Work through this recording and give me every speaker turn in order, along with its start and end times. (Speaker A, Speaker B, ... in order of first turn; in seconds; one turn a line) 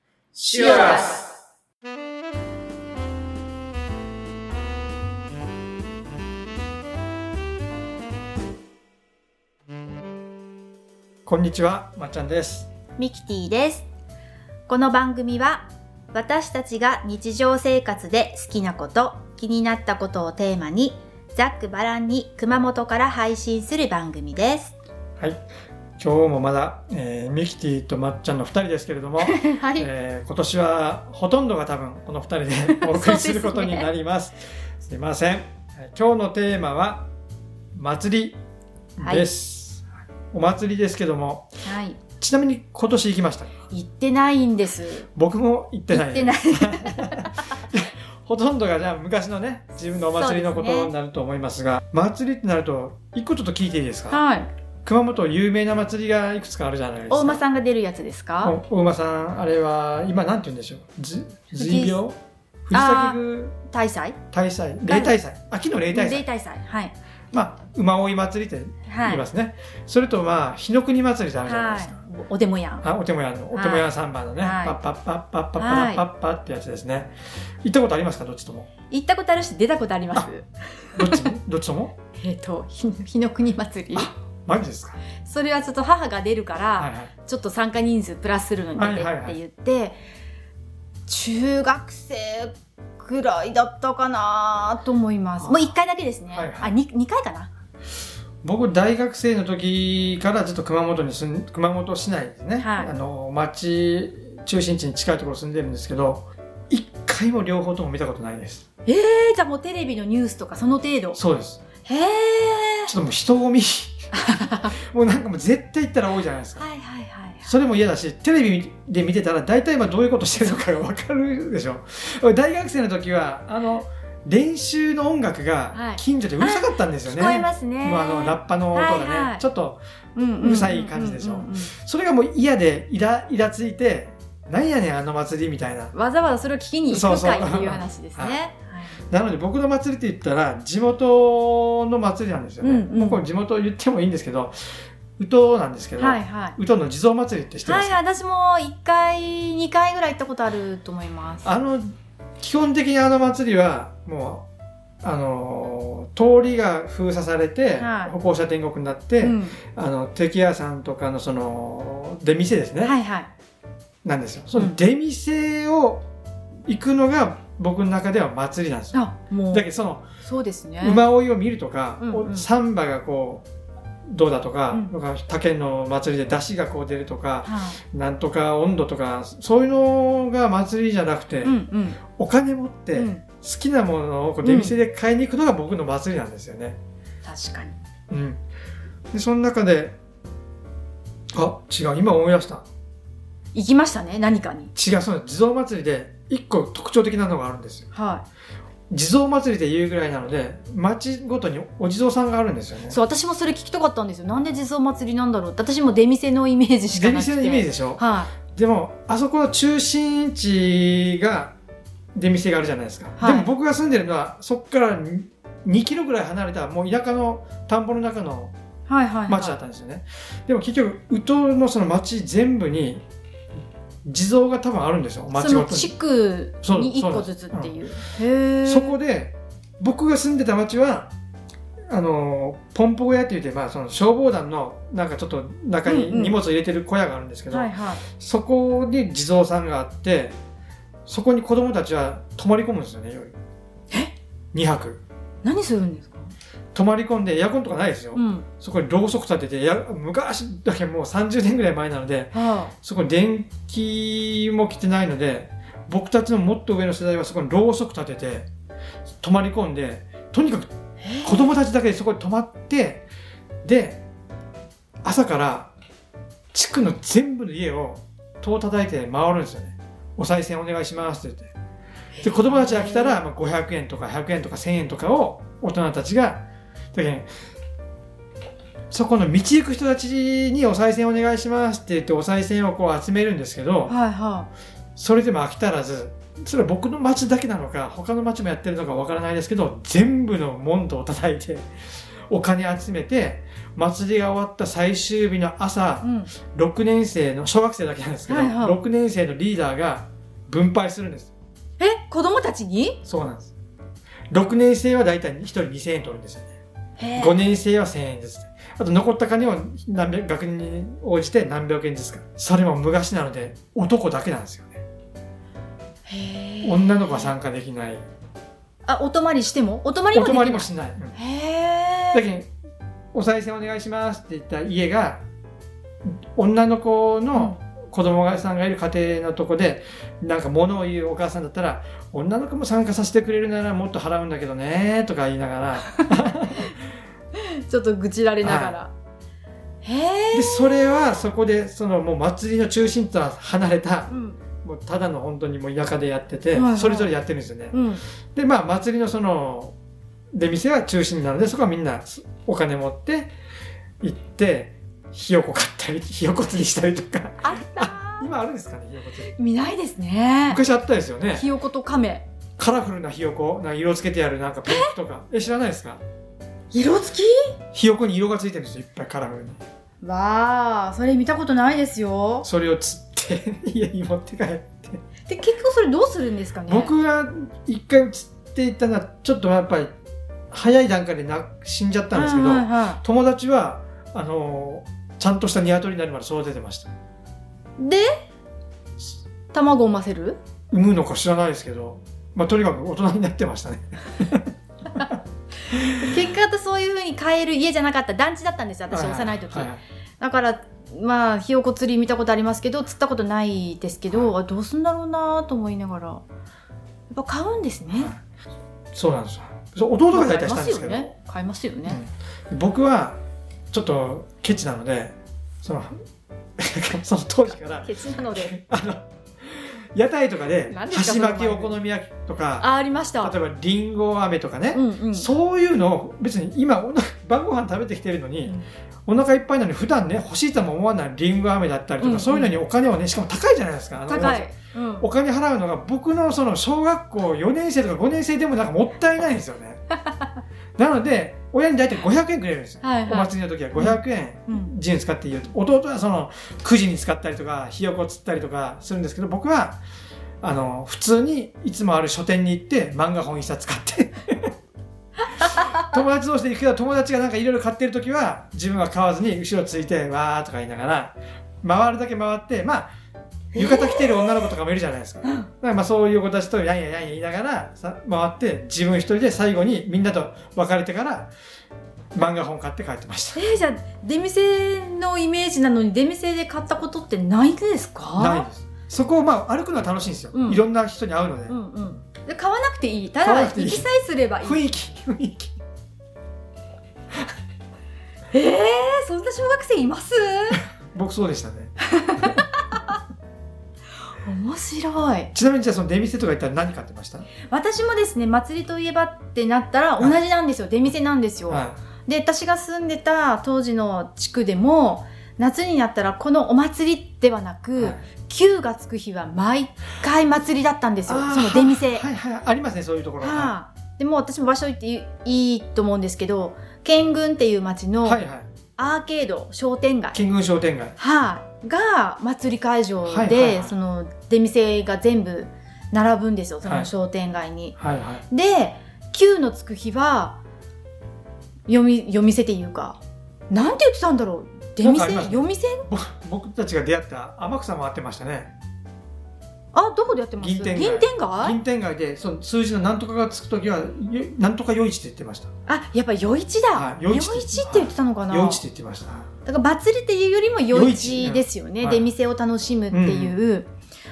Speaker A: 0.3-1.2
Speaker B: 0.5-1.2
Speaker A: 11.2-12.7
Speaker B: 13.0-13.9
Speaker B: 14.7-24.7
Speaker A: 26.0-37.1
Speaker B: 29.2-29.9
Speaker B: 32.7-33.9
Speaker A: 37.7-38.4
Speaker A: 39.0-41.5
Speaker B: 39.0-39.2
Speaker B: 41.6-42.0
Speaker A: 42.2-43.5
Speaker B: 43.7-45.1
Speaker A: 45.1-54.2
Speaker B: 45.9-47.4
Speaker B: 50.1-50.9
Speaker B: 54.1-54.5
Speaker A: 54.8-57.4
Speaker B: 57.1-58.5
Speaker A: 58.4-63.5
Speaker B: 61.5-62.0
Speaker B: 62.7-64.2
Speaker A: 64.3-66.2
Speaker B: 64.9-65.1
Speaker B: 65.9-66.9
Speaker A: 67.3-72.0
Speaker B: 68.8-69.2
Speaker B: 71.4-72.8
Speaker A: 72.8-78.7
Speaker B: 73.5-74.8
Speaker B: 75.6-76.0
Speaker B: 78.9-81.3
Speaker A: 81.0-81.9
Speaker B: 82.1-84.1
Speaker A: 83.9-85.0
Speaker B: 85.2-90.0
Speaker A: 86.8-87.1
Speaker A: 88.8-89.4
Speaker B: 91.1-97.5
Speaker A: 96.3-96.7
Speaker A: 98.4-108.6
Speaker B: 102.6-102.9
Speaker B: 108.8-111.2
Speaker A: 111.2-111.6
Speaker B: 111.8-112.9
Speaker A: 112.9-116.6
Speaker B: 114.1-114.7
Speaker B: 116.6-117.5
Speaker A: 117.4-129.8
Speaker B: 125.7-129.4
Speaker B: 130.2-131.7
Speaker A: 130.3-135.9
Speaker B: 135.9-139.0
Speaker A: 136.9-138.4
Speaker A: 139.1-148.0
Speaker B: 142.6-143.2
Speaker B: 146.0-146.6
Speaker B: 147.6-151.5
Speaker A: 151.4-151.9
Speaker A: 152.4-154.4
Speaker A: 155.0-162.9
Speaker B: 157.8-158.1
Speaker B: 159.2-159.6
Speaker B: 162.8-163.3
Speaker A: 164.0-166.0
Speaker A: 166.7-170.0
Speaker B: 168.9-169.7
Speaker B: 170.2-171.0
Speaker A: 170.8-173.4
Speaker B: 172.0-172.5
Speaker A: 174.1-181.5
Speaker B: 177.4-177.8
Speaker B: 181.4-182.0
Speaker A: 182.1-186.8
Speaker B: 182.9-183.2
Speaker B: 184.4-184.7
Speaker B: 187.2-187.8
Speaker A: 188.1-188.4
Speaker A: 189.1-189.9
Speaker A: 191.3-192.6
Speaker B: 193.5-194.7
Speaker A: 194.7-197.9
Speaker B: 197.9-198.2
Speaker A: 198.9-203.0
Speaker B: 202.9-208.3
Speaker A: 206.9-208.0
Speaker A: 208.5-211.5
Speaker A: 212.1-218.5
Speaker B: 213.2-213.5
Speaker B: 218.9-219.6
Speaker A: 219.3-223.0
Speaker A: 224.0-225.9
Speaker B: 225.3-229.0
Speaker A: 226.6-227.7
Speaker A: 228.6-231.1
Speaker A: 231.9-240.3
Speaker B: 235.8-236.4
Speaker B: 237.5-238.0
Speaker A: 241.1-243.3
Speaker A: 244.5-245.0
Speaker B: 245.4-246.3
Speaker A: 246.7-258.5
Speaker B: 248.1-248.4
Speaker B: 252.3-252.7
Speaker A: 259.2-260.7
Speaker B: 261.0-261.5
Speaker A: 261.2-263.1
Speaker A: 263.6-264.0
Speaker A: 265.0-265.7
Speaker A: 266.5-271.5
Speaker B: 272.1-273.2
Speaker A: 272.2-276.4
Speaker A: 276.9-277.3
Speaker A: 278.9-283.9
Speaker B: 283.9-284.5
Speaker A: 284.9-291.7
Speaker A: 292.3-301.3
Speaker B: 296.0-296.3
Speaker B: 298.3-298.8
Speaker B: 301.8-303.0
Speaker A: 303.0-303.5
Speaker A: 304.3-306.5
Speaker B: 307.0-307.4
Speaker A: 307.2-314.8
Speaker B: 316.1-317.3
Speaker A: 316.6-318.0
Speaker B: 318.9-322.3
Speaker A: 320.1-321.1
Speaker A: 322.1-322.5
Speaker A: 323.1-325.2
Speaker A: 326.3-336.7
Speaker B: 337.4-338.9
Speaker A: 338.4-338.8
Speaker B: 339.8-341.0
Speaker A: 340.3-344.1
Speaker B: 344.1-344.4
Speaker A: 344.6-347.8
Speaker B: 346.5-347.1
Speaker B: 347.7-348.0
Speaker A: 348.3-349.8
Speaker A: 350.3-353.3
Speaker A: 354.0-359.3
Speaker B: 357.4-358.3
Speaker B: 359.3-360.6
Speaker A: 360.5-361.4
Speaker B: 361.3-362.2
Speaker A: 362.6-366.0
Speaker B: 364.6-364.9
Speaker B: 366.7-367.6
Speaker A: 367.7-369.6
Speaker B: 370.0-372.5
Speaker A: 372.4-375.0
Speaker B: 375.3-376.9
Speaker A: 376.7-379.9
Speaker A: 380.5-386.9
Speaker B: 382.1-383.0
Speaker B: 387.8-388.1
Speaker B: 389.5-390.4
Speaker A: 390.7-395.2
Speaker A: 395.7-396.1
Speaker B: 395.9-406.2
Speaker A: 398.9-399.8
Speaker B: 407.1-408.1
Speaker A: 408.9-411.1
Speaker B: 410.1-412.0
Speaker A: 411.9-413.2
Speaker A: 413.7-416.0
Speaker A: 416.6-422.7
Speaker B: 417.8-418.6
Speaker B: 420.7-421.8
Speaker B: 422.6-423.3
Speaker A: 423.2-428.6
Speaker B: 424.7-425.3
Speaker A: 429.1-439.8
Speaker B: 432.0-432.5
Speaker B: 434.1-435.1
Speaker A: 440.8-449.8
Speaker B: 442.8-444.7
Speaker A: 450.4-454.5
Speaker A: 455.4-462.9
Speaker B: 463.5-464.5
Speaker A: 463.5-471.3
Speaker B: 465.2-465.5
Speaker A: 472.1-473.4
Speaker B: 473.3-478.5
Speaker A: 478.2-481.6
Speaker B: 480.3-480.6
Speaker B: 481.5-484.7
Speaker A: 483.2-483.9
Speaker A: 484.4-485.6
Speaker B: 488.3-490.6
Speaker A: 490.9-491.7
Speaker B: 491.8-492.9
Speaker B: 494.2-495.3
Speaker A: 495.3-497.3
Speaker B: 497.5-512.0
Speaker A: 501.5-501.8
Speaker A: 511.1-513.5
Speaker B: 513.2-518.2
Speaker A: 518.0-518.5
Speaker B: 518.8-520.2
Speaker A: 520.1-520.9
Speaker B: 521.0-527.8
Speaker A: 523.0-523.7
Speaker A: 526.6-526.9
Speaker A: 527.8-528.2
Speaker B: 528.3-530.4
Speaker B: 531.7-533.0
Speaker B: 533.5-535.9
Speaker A: 534.8-538.5
Speaker B: 539.7-541.6
Speaker A: 540.4-545.5
Speaker B: 545.7-548.6
Speaker A: 546.7-549.3
Speaker B: 549.4-553.7
Speaker A: 550.7-552.1
Speaker A: 552.9-553.4